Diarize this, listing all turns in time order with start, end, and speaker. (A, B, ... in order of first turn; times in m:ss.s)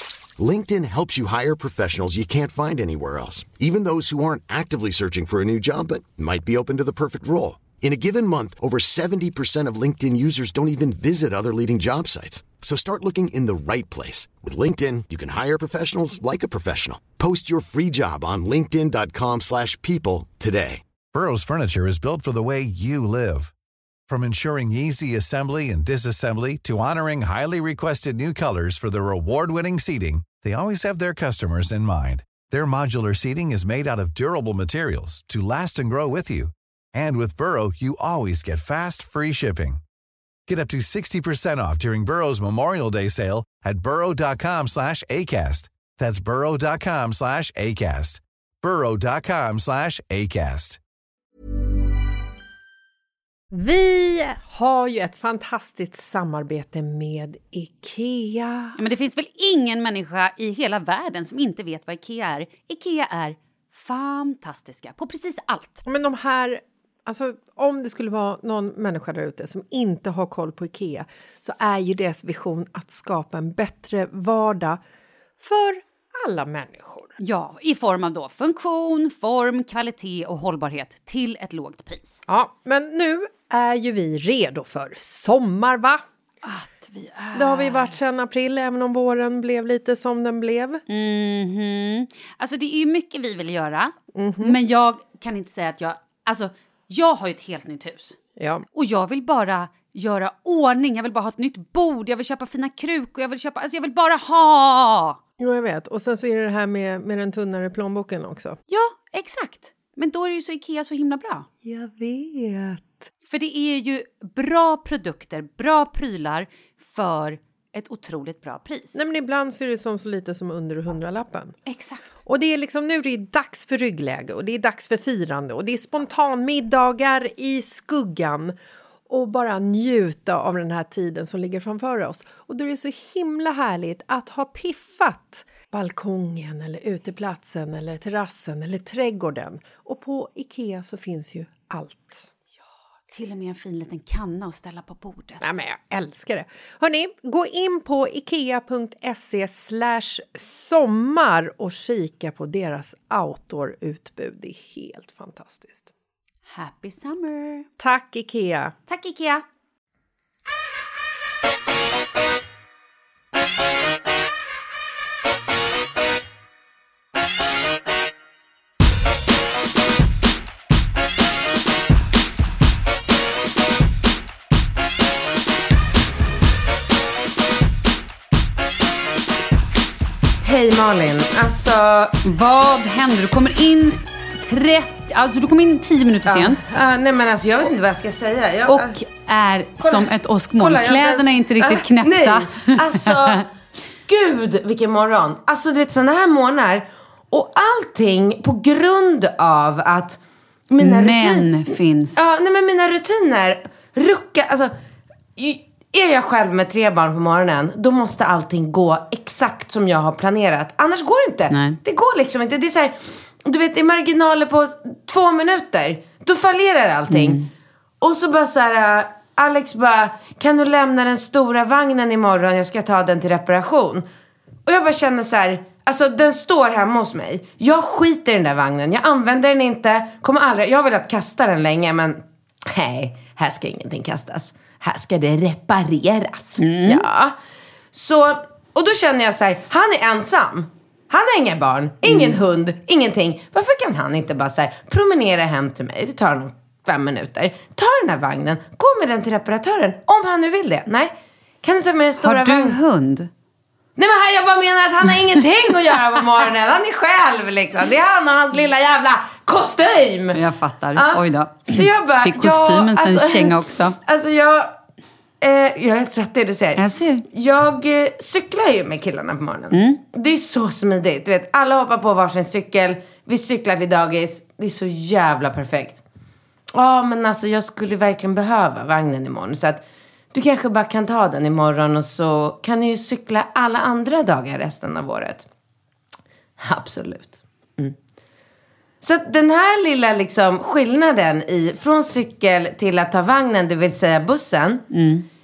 0:00.4-0:20.8 A
0:21.1-0:23.5 B
0:24.1-0:39.8 B
0:40.5-0:50.8 B
0:53.5-0:58.8 C
0:58.8-1:05.8 D
1:05.8-1:14.8 C
1:15.4-1:17.2 C
1:17.2-1:22.2 D
1:22.3-1:26.0 C
1:26.4-1:28.0 D
1:27.3-1:30.8 C
1:30.9-1:38.2 D
1:34.2-1:34.6 C
1:38.4-1:38.7 C
1:38.7-1:45.2 D
1:45.4-1:48.6 C
1:48.7-1:51.5 D
1:51.6-1:53.1 C
1:53.3-1:59.0 D
1:58.9-2:01.6 C
2:01.7-2:02.1 D
2:02.3-2:08.6 C
2:09.1-2:22.3 C
2:23.1-2:25.4 D
2:25.4-2:35.9 C
2:36.5-2:37.7 D
2:37.8-2:38.7 C
2:38.9-2:39.4 D
3:00.4-3:02.2 E
3:02.2-3:06.6 D
3:06.3-3:09.0 E
3:08.7-3:13.4 D
3:09.8-3:13.4 E
3:14.1-3:20.2 E
3:20.7-3:24.7 E
3:20.8-3:22.2 D
3:25.4-3:37.4 E
3:31.5-3:31.8 D
3:37.1-3:37.5 D
3:38.0-3:44.1 E
3:44.7-3:57.3 E
3:56.6-3:57.0 D
3:57.9-4:11.1 E
4:02.1-4:02.4 D
4:11.6-4:12.8 E
4:12.2-4:13.3 D
4:14.0-4:20.4 E
4:20.3-4:24.0 D
4:21.0-4:24.7 E
4:25.4-4:36.0 E
4:26.8-4:27.2 D
4:29.7-4:30.0 D
4:36.7-4:45.5 E
4:46.6-4:48.0 E
4:49.0-4:54.8 E
4:54.9-4:55.2 D